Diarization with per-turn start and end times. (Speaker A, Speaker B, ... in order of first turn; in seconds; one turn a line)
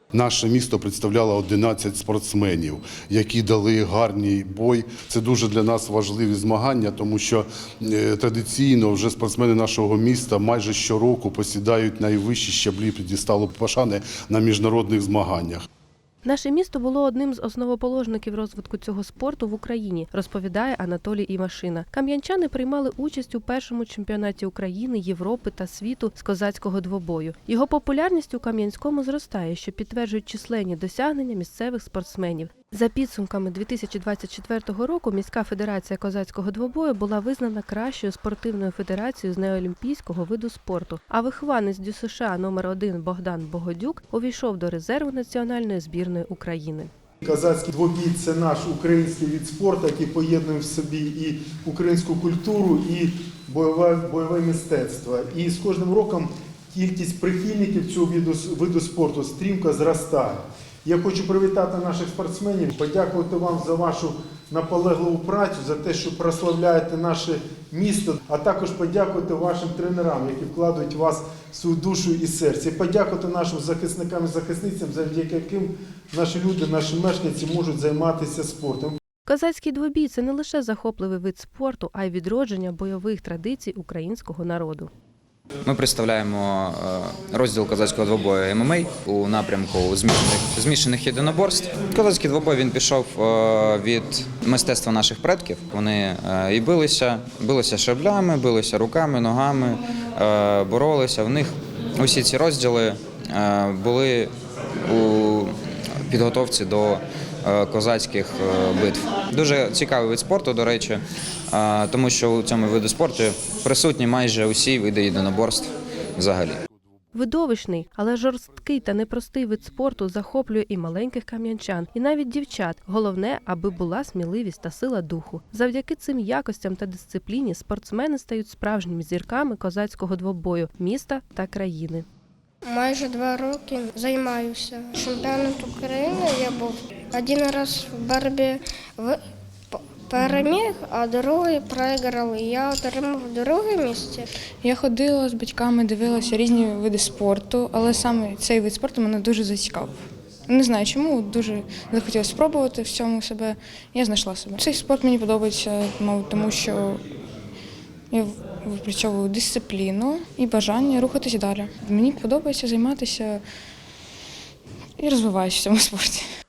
Speaker A: 0.1-15.6
Speaker B: 16.2-46.9
Speaker C: 47.2-79.0
Speaker B: 79.2-84.9
Speaker D: 85.6-104.3
Speaker D: 104.8-105.5
Speaker D: 106.0-116.6
Speaker B: 117.1-132.1
Speaker E: 132.6-144.3
Speaker F: 144.6-157.0
Speaker F: 158.1-163.4
Speaker F: 165.0-166.2